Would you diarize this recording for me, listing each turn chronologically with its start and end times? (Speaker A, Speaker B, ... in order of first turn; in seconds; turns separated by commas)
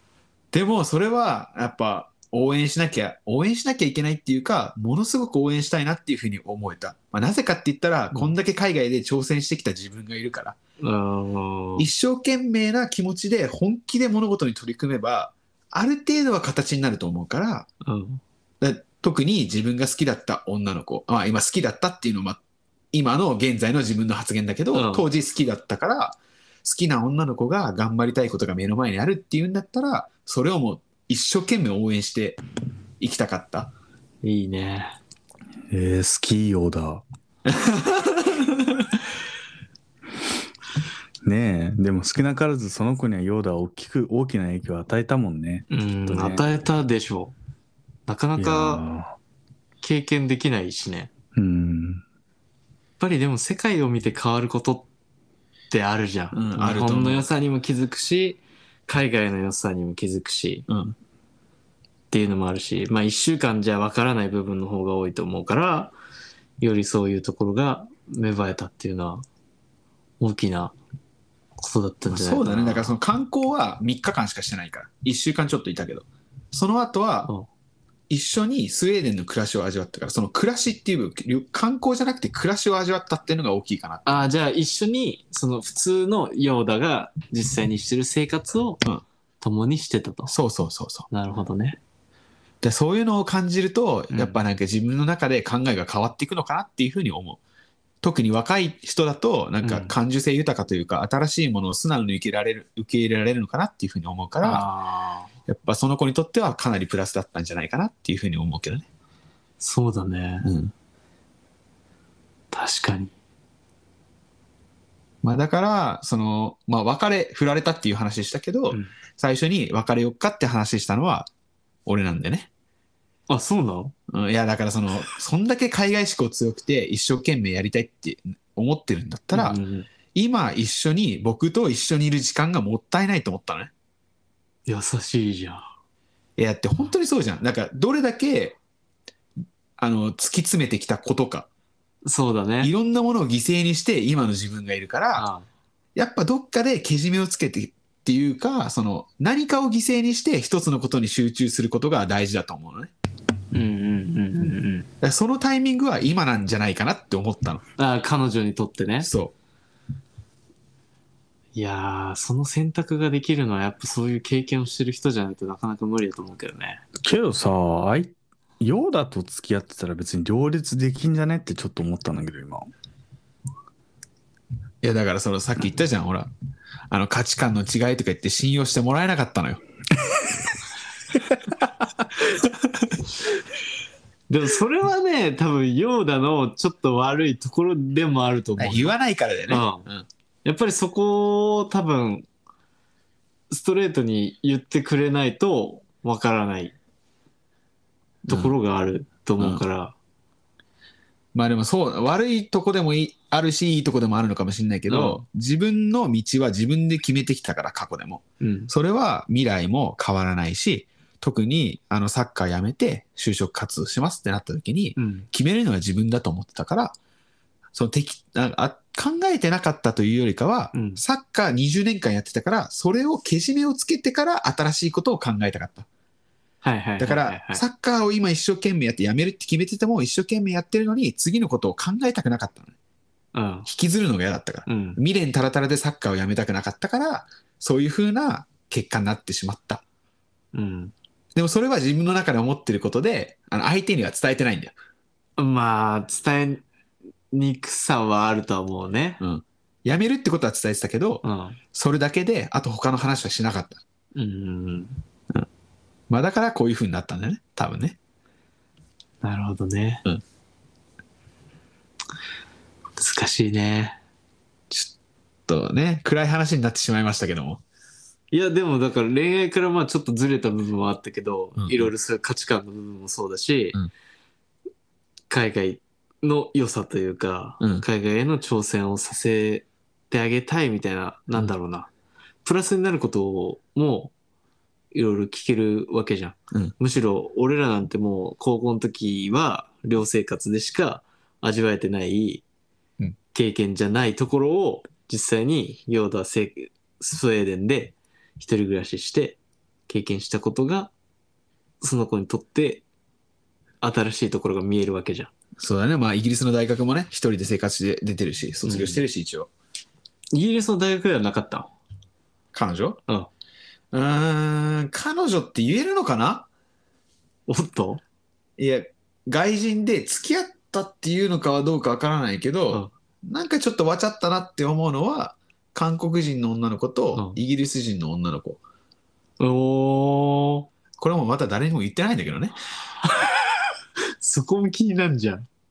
Speaker A: 0.5-10.6, Speaker B: 10.8-11.9, Speaker A: 11.8-17.7, Speaker B: 17.8-18.2, Speaker A: 18.6-22.4, Speaker A: 22.9-32.4, Speaker B: 24.7-25.1, Speaker A: 33.0-33.7, Speaker B: 34.2-35.0, Speaker C: 35.7-37.0, Speaker A: 37.5-38.9, Speaker C: 41.2-46.4, Speaker B: 45.7-47.4, Speaker B: 48.1-48.9, Speaker C: 48.4-49.2, Speaker B: 49.8-51.1, Speaker C: 51.4-52.0, Speaker B: 53.0-54.9, Speaker B: 55.7-60.7, Speaker A: 56.3-57.3, Speaker A: 60.7-61.0, Speaker B: 62.1-66.0, Speaker B: 66.6-69.2, Speaker B: 70.2-70.8, Speaker B: 71.6-73.0, Speaker A: 72.1-77.3, Speaker A: 78.1-84.1, Speaker B: 84.0-88.8, Speaker B: 89.4-90.3, Speaker A: 90.3-91.1, Speaker B: 91.1-91.8, Speaker A: 92.6-97.4, Speaker B: 94.1-94.4, Speaker A: 98.0-104.7, Speaker B: 99.6-99.9, Speaker B: 104.4-105.3, Speaker A: 105.5-108.9, Speaker B: 109.6-110.5, Speaker A: 110.5-110.7, Speaker B: 112.5-113.1, Speaker A: 115.2-121.3, Speaker A: 121.9-122.5, Speaker B: 123.3-123.9, Speaker A: 124.1-129.6, Speaker B: 129.3-129.9, Speaker A: 130.2-133.7, Speaker B: 134.7-135.7, Speaker A: 136.4-138.6, Speaker A: 139.8-141.5, Speaker B: 142.1-142.7, Speaker A: 142.6-145.3, Speaker B: 145.2-145.5, Speaker A: 145.9-152.9, Speaker B: 153.5-154.9, Speaker A: 155.0-157.6, Speaker B: 157.8-159.1, Speaker A: 159.0-159.3, Speaker B: 161.5-166.8, Speaker C: 167.0-172.7, Speaker A: 174.8-176.3, Speaker A: 176.9-179.6, Speaker A: 182.2-182.9, Speaker B: 184.3-188.9, Speaker A: 188.6-190.1, Speaker B: 189.5-189.8, Speaker B: 190.4-192.3, Speaker B: 193.5-196.8, Speaker B: 198.3-199.9, Speaker A: 198.3-198.5, Speaker A: 199.4-199.6, Speaker A: 201.3-216.9, Speaker B: 204.9-205.2, Speaker B: 208.4-208.7, Speaker B: 215.0-215.3, Speaker A: 217.8-225.9, Speaker B: 220.7-221.0, Speaker B: 226.6-227.6, Speaker A: 227.0-232.7, Speaker B: 233.3-233.7, Speaker A: 233.7-239.8, Speaker B: 234.7-235.0, Speaker B: 240.5-240.9, Speaker A: 241.3-244.8, Speaker B: 245.4-246.6, Speaker B: 247.3-249.2, Speaker A: 249.2-253.8, Speaker B: 251.2-251.6, Speaker B: 254.2-255.0, Speaker A: 256.1-258.0, Speaker B: 259.2-260.1, Speaker B: 263.0-264.0, Speaker A: 265.5-267.6, Speaker B: 268.3-273.8, Speaker A: 271.6-271.9, Speaker B: 275.3-281.9, Speaker B: 282.4-284.1, Speaker B: 284.9-292.4, Speaker B: 293.3-300.9, Speaker B: 301.8-302.8, Speaker B: 303.8-305.3, Speaker A: 305.6-309.5, Speaker B: 308.6-309.0, Speaker B: 310.3-311.7, Speaker A: 312.5-313.0, Speaker A: 313.9-316.5, Speaker B: 317.5-318.0, Speaker A: 318.6-328.6, Speaker B: 329.4-330.7, Speaker A: 331.0-332.6, Speaker B: 334.2-335.5